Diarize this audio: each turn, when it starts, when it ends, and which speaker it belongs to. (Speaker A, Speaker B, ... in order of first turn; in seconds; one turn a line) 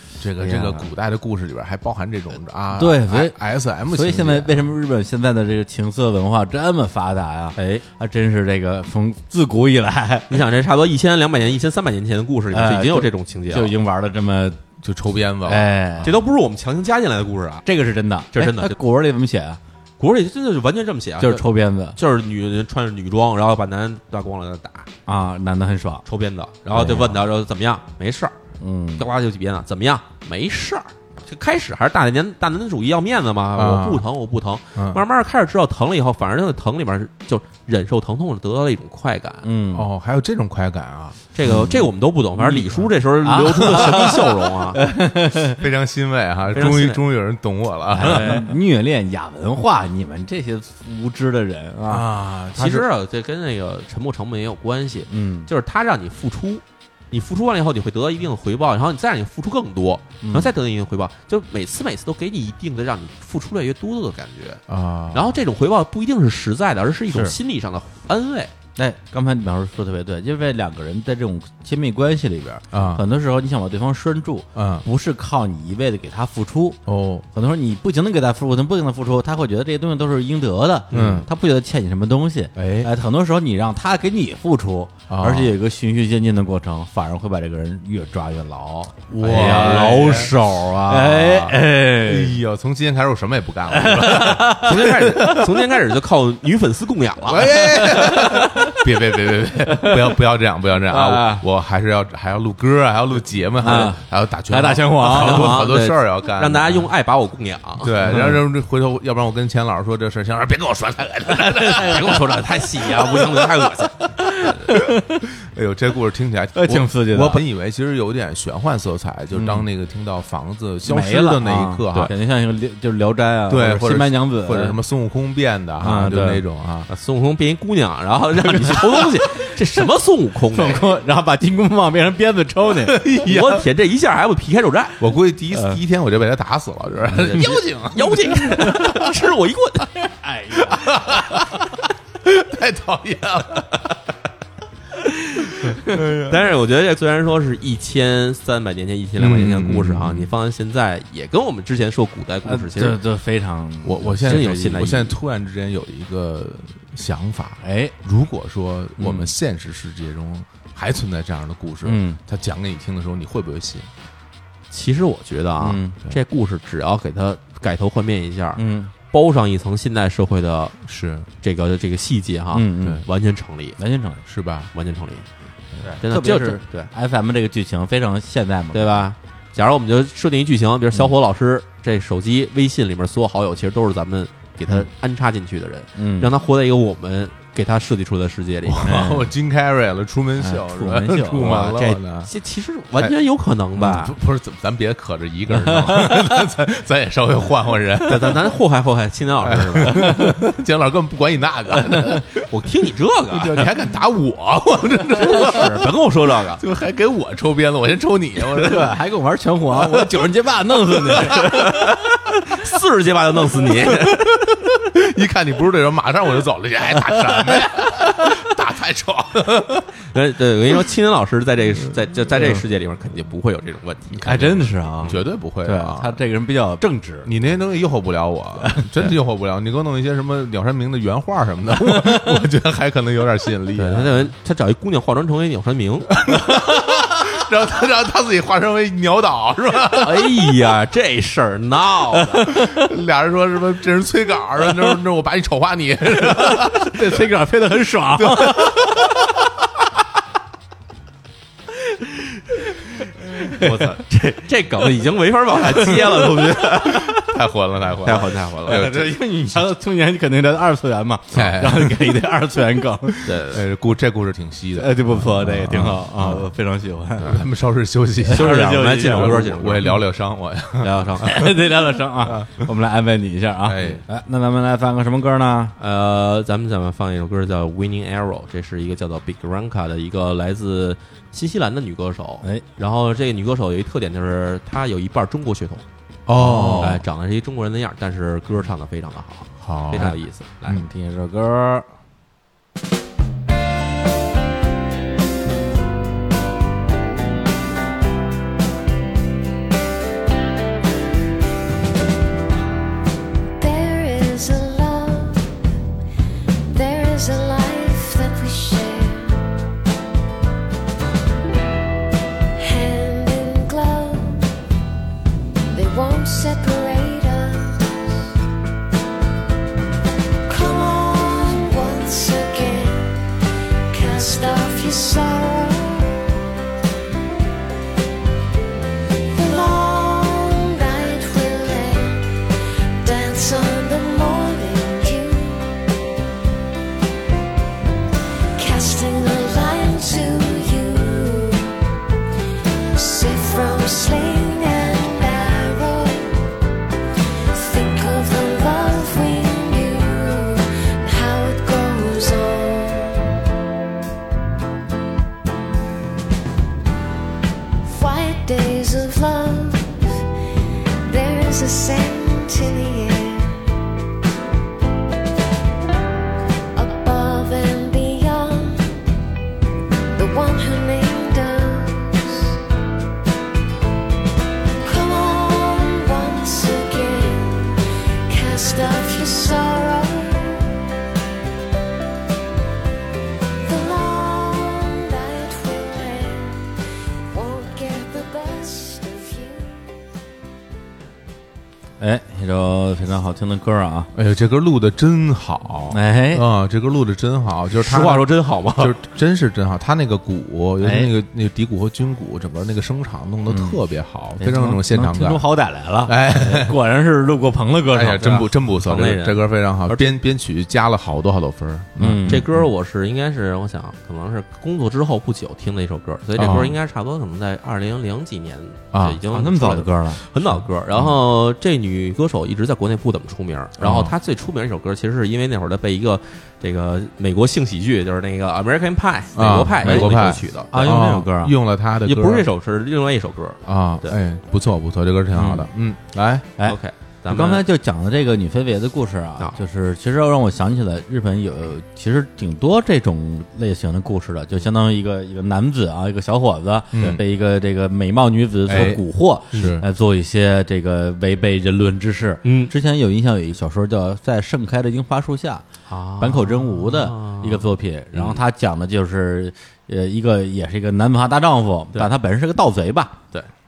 Speaker A: 0.2-4.7
Speaker B: 0.4-0.9
Speaker B: 2.8-3.4
Speaker B: 3.9-10.4
Speaker C: 10.3-13.8
Speaker B: 12.5-14.6
Speaker A: 14.8-16.1
Speaker B: 15.5-16.1
Speaker C: 16.0-17.6
Speaker B: 17.7-19.6
Speaker C: 18.3-18.8
Speaker C: 20.0-24.9
Speaker B: 21.2-22.0
Speaker B: 25.1-26.0
Speaker C: 26.1-28.4
Speaker B: 26.7-27.0
Speaker A: 26.8-27.1
Speaker B: 28.6-29.1
Speaker C: 29.0-39.5
Speaker A: 33.5-34.1
Speaker A: 34.8-35.0
Speaker B: 39.4-39.9
Speaker A: 39.7-41.2
Speaker C: 41.3-44.8
Speaker B: 41.5-45.6
Speaker A: 43.9-44.1
Speaker A: 45.4-48.5
Speaker C: 46.5-47.0
Speaker B: 47.9-52.1
Speaker C: 48.0-48.5
Speaker A: 51.9-52.9
Speaker C: 52.5-68.5
Speaker B: 55.1-55.5
Speaker B: 60.2-60.5
Speaker A: 64.7-65.4
Speaker B: 67.1-67.4
Speaker B: 68.8-76.8
Speaker A: 72.7-73.0
Speaker A: 74.5-74.8
Speaker A: 76.9-77.3
Speaker B: 77.3-92.4
Speaker C: 80.9-81.2
Speaker A: 80.9-81.3
Speaker A: 82.6-82.9
Speaker A: 85.1-85.5
Speaker A: 89.1-90.5
Speaker C: 89.3-91.3
Speaker A: 91.1-95.5
Speaker B: 93.7-95.4
Speaker C: 94.6-97.5
Speaker A: 97.2-106.9
Speaker B: 97.5-98.9
Speaker B: 99.7-100.1
Speaker B: 100.9-101.4
Speaker B: 103.6-105.6
Speaker C: 105.0-108.2
Speaker A: 107.8-112.4
Speaker B: 108.1-108.4
Speaker B: 111.3-113.4
Speaker C: 111.6-114.0
Speaker B: 114.0-115.3
Speaker A: 114.6-122.1
Speaker B: 116.5-117.4
Speaker B: 119.3-119.6
Speaker B: 120.9-124.8
Speaker A: 123.5-126.9
Speaker B: 125.8-126.4
Speaker C: 126.9-130.9
Speaker B: 128.5-129.5
Speaker B: 130.5-133.1
Speaker A: 132.8-133.7
Speaker C: 133.2-135.0
Speaker A: 135.0-139.1
Speaker B: 135.5-135.8
Speaker C: 137.1-140.1
Speaker B: 140.2-141.4
Speaker A: 140.6-144.0
Speaker A: 145.6-146.4
Speaker C: 146.1-153.0
Speaker A: 149.2-150.3
Speaker B: 152.4-154.8
Speaker A: 153.8-163.9
Speaker C: 154.2-155.2
Speaker B: 157.6-157.9
Speaker B: 161.8-162.2
Speaker C: 164.7-173.8
Speaker B: 165.6-166.0
Speaker B: 168.6-168.9
Speaker A: 170.9-171.3
Speaker B: 172.5-173.0
Speaker B: 173.8-174.2
Speaker A: 174.3-174.7
Speaker C: 174.7-175.3
Speaker B: 175.8-179.1
Speaker C: 176.0-176.9
Speaker C: 178.7-188.8
Speaker B: 186.0-186.3
Speaker A: 188.7-192.3
Speaker B: 188.8-189.3
Speaker B: 190.4-191.5
Speaker C: 191.4-194.1
Speaker A: 193.8-198.5
Speaker B: 195.6-196.3
Speaker C: 198.1-200.0
Speaker A: 199.4-202.4
Speaker B: 200.1-200.3
Speaker C: 202.3-203.7
Speaker A: 203.3-205.9
Speaker C: 205.1-206.6
Speaker A: 206.6-209.0
Speaker B: 208.6-211.8
Speaker A: 209.8-210.1
Speaker A: 211.1-211.6
Speaker C: 211.4-214.3
Speaker A: 213.9-219.9
Speaker C: 220.1-224.2
Speaker A: 224.1-226.2
Speaker B: 224.2-227.3
Speaker A: 227.2-234.2
Speaker B: 231.8-232.4
Speaker C: 233.8-236.1
Speaker A: 236.1-240.4
Speaker C: 239.9-242.4
Speaker B: 242.4-242.9
Speaker A: 242.5-247.2
Speaker B: 246.1-249.3
Speaker A: 248.2-249.2
Speaker C: 253.4-257.1
Speaker B: 256.6-256.9
Speaker A: 256.8-259.2
Speaker C: 258.0-258.9
Speaker B: 258.7-263.3
Speaker A: 261.3-262.2
Speaker C: 263.2-263.6
Speaker A: 263.4-266.5
Speaker B: 264.8-267.4
Speaker A: 267.2-271.5
Speaker B: 268.3-269.4
Speaker C: 268.3-270.0
Speaker C: 270.8-271.3
Speaker B: 271.2-275.8
Speaker A: 272.2-272.7
Speaker A: 273.6-274.0
Speaker C: 275.8-285.8
Speaker A: 286.3-287.0
Speaker B: 286.4-286.9
Speaker C: 286.8-290.8
Speaker A: 289.6-290.9
Speaker B: 290.7-291.9
Speaker D: 303.6-305.5
Speaker D: 306.7-309.4
Speaker D: 312.6-314.5
Speaker D: 315.7-318.0
Speaker D: 320.4-323.2
Speaker D: 323.9-326.2
Speaker D: 329.3-335.8
Speaker D: 338.6-341.8
Speaker D: 342.9-346.4
Speaker D: 347.5-353.3
Speaker D: 357.8-360.2
Speaker D: 361.0-363.7
Speaker D: 366.7-369.0
Speaker D: 370.2-372.6
Speaker D: 374.8-380.8
Speaker D: 383.6-386.8
Speaker D: 387.3-389.9
Speaker B: 392.0-394.1
Speaker A: 394.1-405.5
Speaker B: 395.9-396.4
Speaker C: 397.8-399.0
Speaker B: 400.8-401.1
Speaker B: 403.5-403.8
Speaker B: 404.4-408.4
Speaker A: 406.1-406.8
Speaker A: 407.9-412.7
Speaker C: 408.3-410.2
Speaker B: 412.0-412.4
Speaker C: 412.3-430.9
Speaker A: 416.4-416.8
Speaker A: 418.9-419.2
Speaker B: 419.3-420.2
Speaker A: 423.8-424.1
Speaker A: 429.4-432.5
Speaker B: 429.8-431.5
Speaker C: 432.1-434.2
Speaker A: 433.7-436.5
Speaker B: 435.4-435.7
Speaker B: 436.6-455.6
Speaker C: 436.6-437.6
Speaker A: 446.9-447.2
Speaker A: 448.7-449.8
Speaker C: 452.4-452.7
Speaker C: 455.9-458.4
Speaker B: 456.2-463.1